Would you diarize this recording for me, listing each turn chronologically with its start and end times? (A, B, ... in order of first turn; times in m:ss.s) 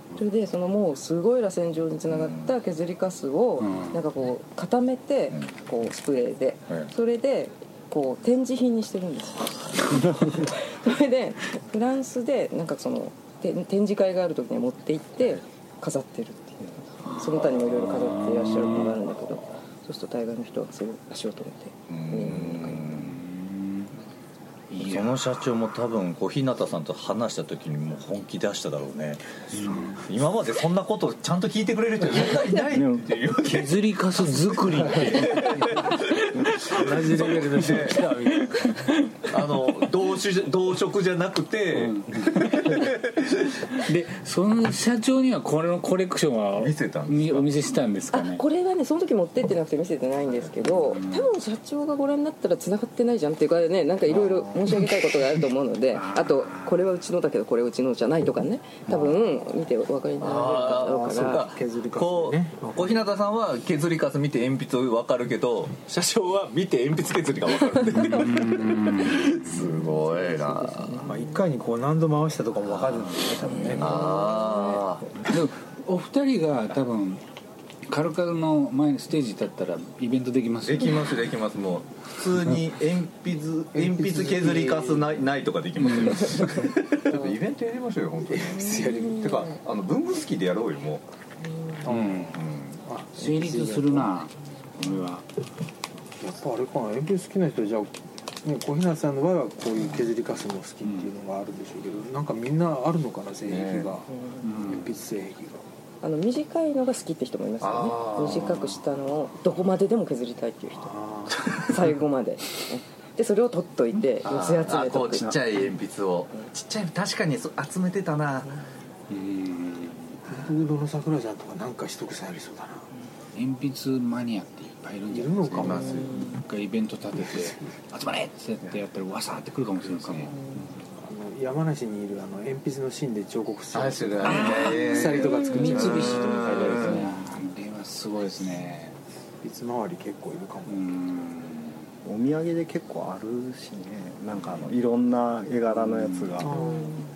0:00.2-0:23.0 A
0:02.1-0:02.5 B
0:03.6-0:04.0 C
0:09.9-0:10.5 D
0:17.1-0:19.0 C
0:21.9-0:23.1 B
0:23.0-0:23.9 C
0:24.7-0:25.2 C
0:24.8-0:29.2 B
0:29.5-0:30.0 C
0:29.9-0:33.8 B
0:32.2-0:32.6 A
0:32.7-0:33.1 D
0:33.4-0:39.8 C
0:34.5-0:38.1 B
0:36.8-0:38.4 E
0:39.3-0:43.7 B
0:41.8-0:42.9 C
0:43.7-0:48.4 C
0:46.5-0:47.5 B
0:48.1-1:01.4 A
0:50.6-0:51.3 C
0:55.9-0:56.7 C
1:00.2-1:11.0 B
1:00.4-1:02.9 E
1:07.9-1:09.7 C
1:09.7-1:11.4 A
1:11.0-1:14.3 E
1:12.8-1:13.2 C
1:13.4-1:14.9 A
1:13.6-1:15.2 B
1:15.2-1:17.2 C
1:17.9-1:21.2 C
1:20.6-1:31.0 B
1:23.7-1:25.1 E
1:25.8-1:26.5 C
1:28.2-1:29.4 E
1:28.4-1:29.5 A
1:31.4-1:31.8 A
1:31.8-1:34.1 E
1:31.9-1:32.4 C
1:32.3-1:32.8 B
1:33.2-1:35.2 C
1:36.2-1:37.9 E
1:38.4-1:45.6 E
1:40.8-1:41.1 C
1:43.4-1:43.9 B
1:44.1-1:44.6 A
1:44.4-1:44.9 C
1:46.0-1:50.9 A
1:47.6-1:48.8 B
1:50.8-1:51.5 E
1:51.3-1:51.7 B
1:51.5-1:55.4 A
1:54.2-1:58.5 B
1:59.1-2:00.2 C
2:00.2-2:02.9 E
2:03.3-2:10.4 C
2:05.1-2:06.3 E
2:05.6-2:06.0 B
2:05.7-2:06.4 A
2:07.2-2:07.5 E
2:10.3-2:10.7 A
2:11.0-2:17.1 E
2:13.7-2:17.1 B
2:14.2-2:19.0 C
2:15.4-2:16.7 A
2:19.4-2:20.9 E
2:20.6-2:21.9 C
2:22.0-2:26.6 D
2:25.7-2:26.5 C
2:26.4-2:27.0 E
2:26.5-2:27.0 A